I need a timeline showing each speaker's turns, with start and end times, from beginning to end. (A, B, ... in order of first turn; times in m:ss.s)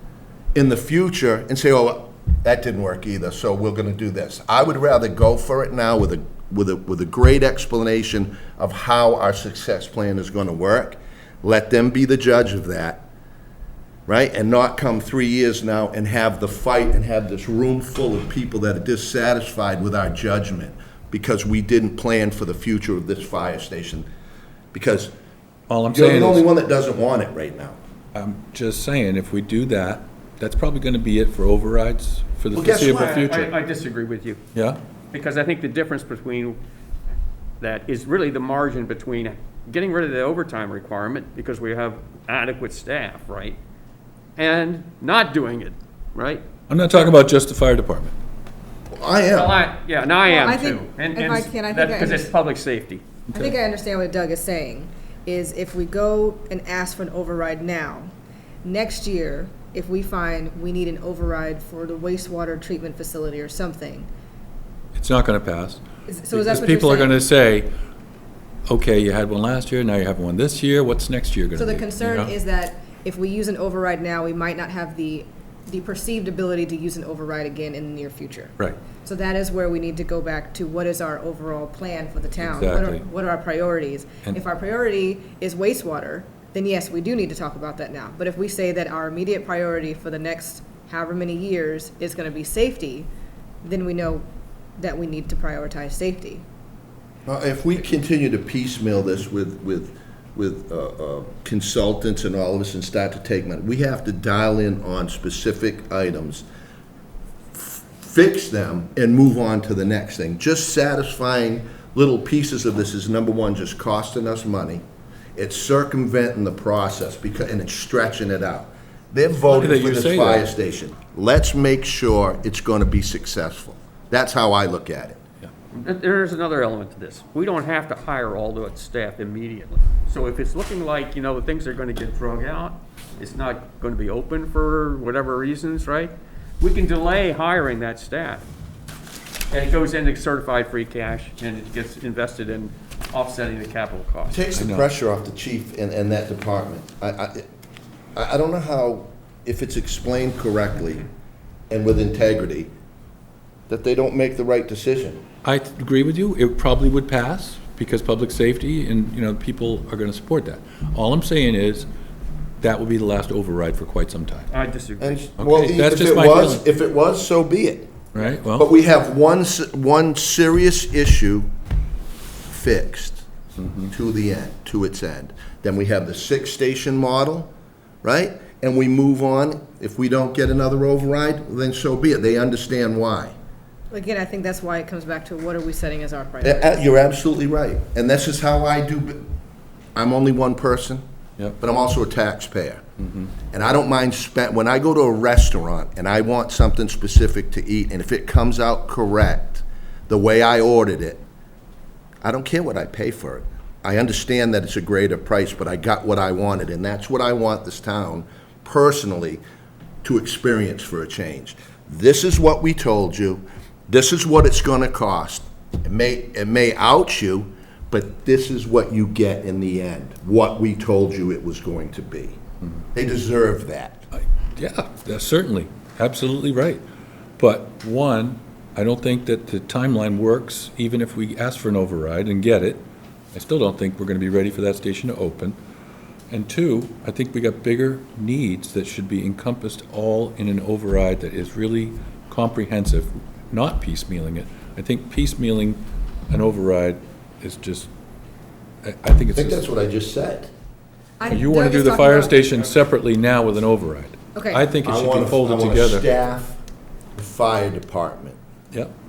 0:00.5-0:13.0 A
0:14.1-0:24.1 A
0:24.7-0:25.1 A
0:25.7-0:26.4 B
0:25.9-0:27.8 A
0:28.1-0:33.5 B
0:32.5-0:33.3 A
0:32.9-0:34.4 C
0:34.5-0:34.8 B
0:35.1-0:36.6 C
0:37.6-0:43.6 C
0:44.4-0:46.4 C
0:46.7-0:48.1 B
0:48.9-0:49.6 A
0:49.3-0:53.0 C
0:50.2-0:52.3 D
0:53.3-0:58.1 D
0:58.6-1:04.1 D
1:04.9-1:07.7 B
1:06.1-1:07.1 D
1:08.7-1:12.3 B
1:11.6-1:33.1 D
1:22.4-1:23.0 B
1:33.6-1:34.2 D
1:34.8-1:36.4 D
1:37.2-1:46.4 A
1:47.5-1:54.8 A
1:55.4-2:05.2 A
1:59.5-2:00.5 B
2:05.7-2:18.4 C
2:19.5-2:24.4 C
2:24.3-2:27.5 A
2:24.6-2:24.9 B
2:28.2-2:31.0 A
2:31.7-2:32.7 A
2:33.7-2:35.2 A
2:35.4-2:41.9 B
2:42.6-2:44.5 B
2:44.5-2:45.2 C
2:45.0-2:51.5 A
2:45.4-2:46.6 B
2:48.1-2:48.7 B
2:52.4-2:53.2 A
2:53.6-2:53.9 B
2:53.9-2:57.5 A
2:58.0-3:03.3 A
3:03.9-3:06.8 D
3:06.4-3:09.2 A
3:10.0-3:11.0 A
3:11.6-3:12.8 A
3:13.0-3:13.3 B
3:13.5-3:21.2 A
3:22.2-3:29.4 A
3:30.0-3:42.4 A
3:42.9-3:44.0 A
3:44.1-3:46.8 B
3:47.4-3:55.6 B
3:56.3-4:07.9 B
4:08.8-4:09.7 B
4:09.3-4:10.5 A
4:11.2-4:12.4 D
4:11.3-4:16.1 B
4:14.3-4:14.6 D
4:14.8-4:16.6 A
4:17.1-4:18.4 A